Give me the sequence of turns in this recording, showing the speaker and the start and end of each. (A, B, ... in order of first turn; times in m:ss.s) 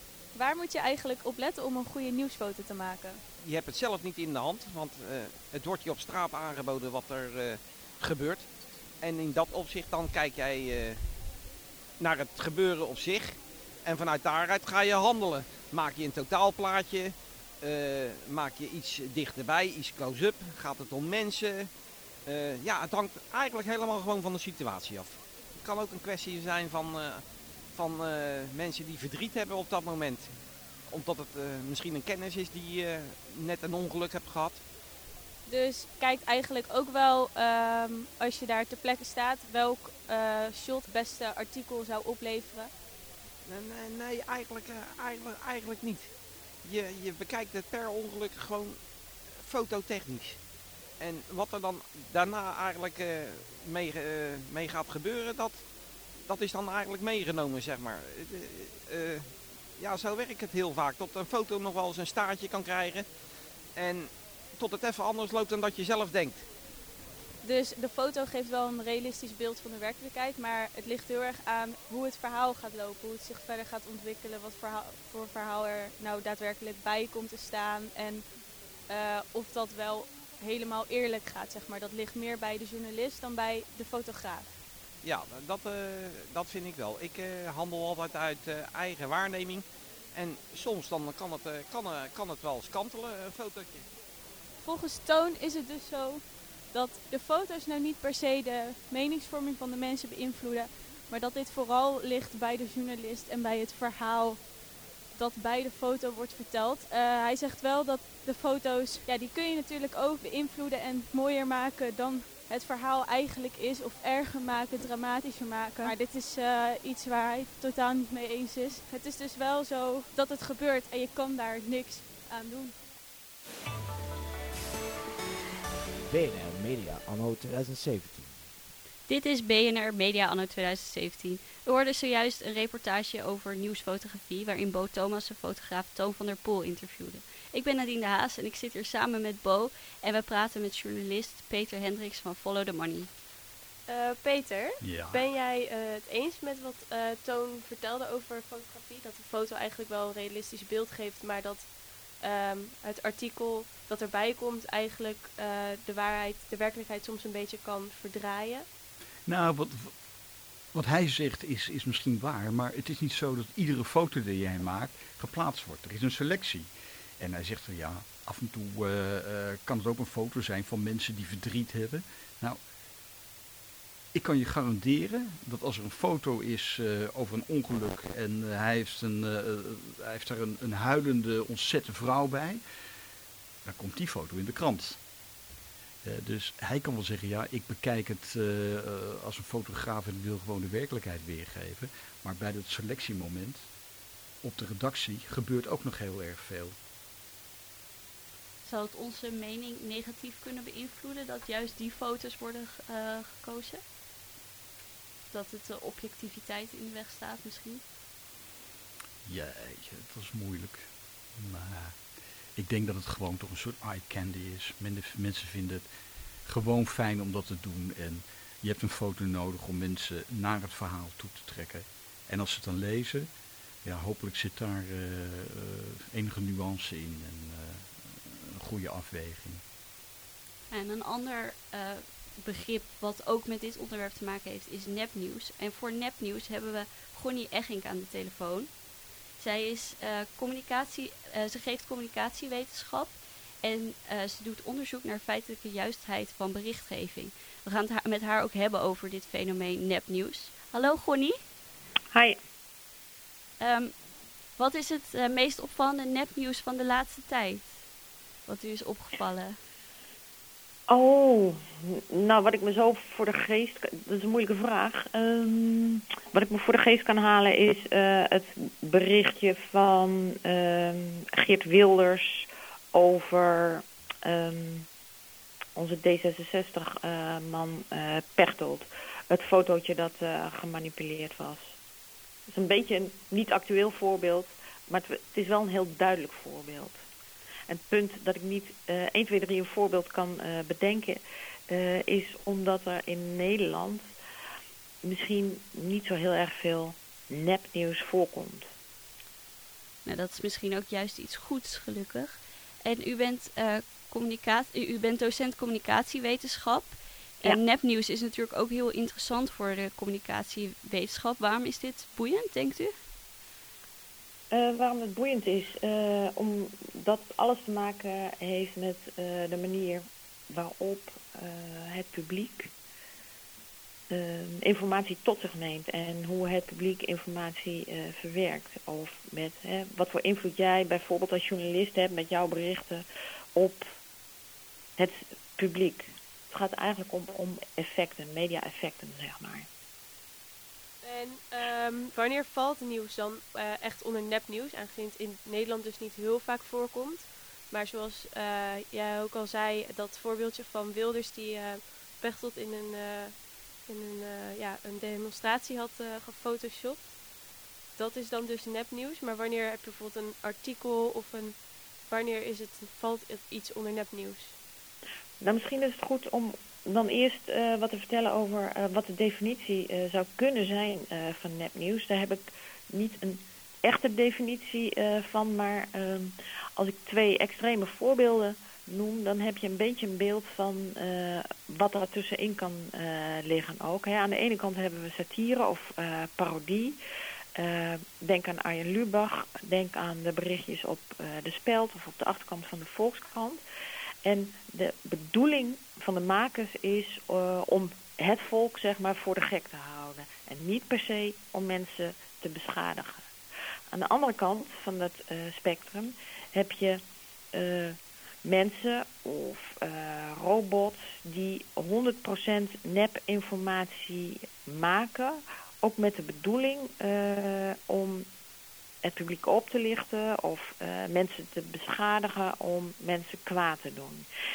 0:00.3-0:03.2 A
0:03.4-0:11.0 B
0:12.0-0:21.7 B
0:22.2-0:30.3 B
0:30.9-0:34.6 B
0:35.4-0:42.7 A
0:43.4-0:50.4 B
0:51.0-0:55.7 B
0:56.2-1:03.1 B
1:03.7-1:06.5 B
1:07.4-1:24.6 A
1:25.0-1:33.9 B
1:34.6-1:44.5 A
1:45.1-2:02.8 A
2:06.1-2:08.5 C
2:09.1-2:23.1 D
2:23.9-2:38.6 E
2:24.8-2:25.2 F
2:39.2-2:40.0 F
2:40.7-2:52.6 F
2:54.1-3:02.6 F
3:03.6-3:05.0 F
3:06.0-3:13.7 F
3:14.4-3:16.8 F
3:18.6-3:23.8 D
3:25.3-3:27.8 D
3:29.2-3:35.9 F
3:36.4-3:43.3 F
3:43.8-3:49.6 F
3:50.7-3:58.8 D
3:59.4-4:11.4 D
4:13.6-4:13.9 D
4:14.6-4:17.8 D
4:18.4-4:19.6 D
4:20.9-4:34.9 G
4:35.7-4:41.7 G
4:42.5-4:47.0 G
4:47.7-4:54.1 G
4:55.0-4:58.6 G
5:00.0-5:12.9 D
5:14.5-5:22.7 G
5:24.1-5:33.0 G
5:33.5-5:33.8 G
5:35.0-5:39.7 G
5:41.0-5:57.2 E
5:58.0-6:04.6 E
6:05.4-6:27.0 G
6:27.6-6:33.6 G
6:34.2-6:43.2 G
6:43.9-6:47.0 G
6:47.5-6:58.3 G
6:59.0-7:04.2 G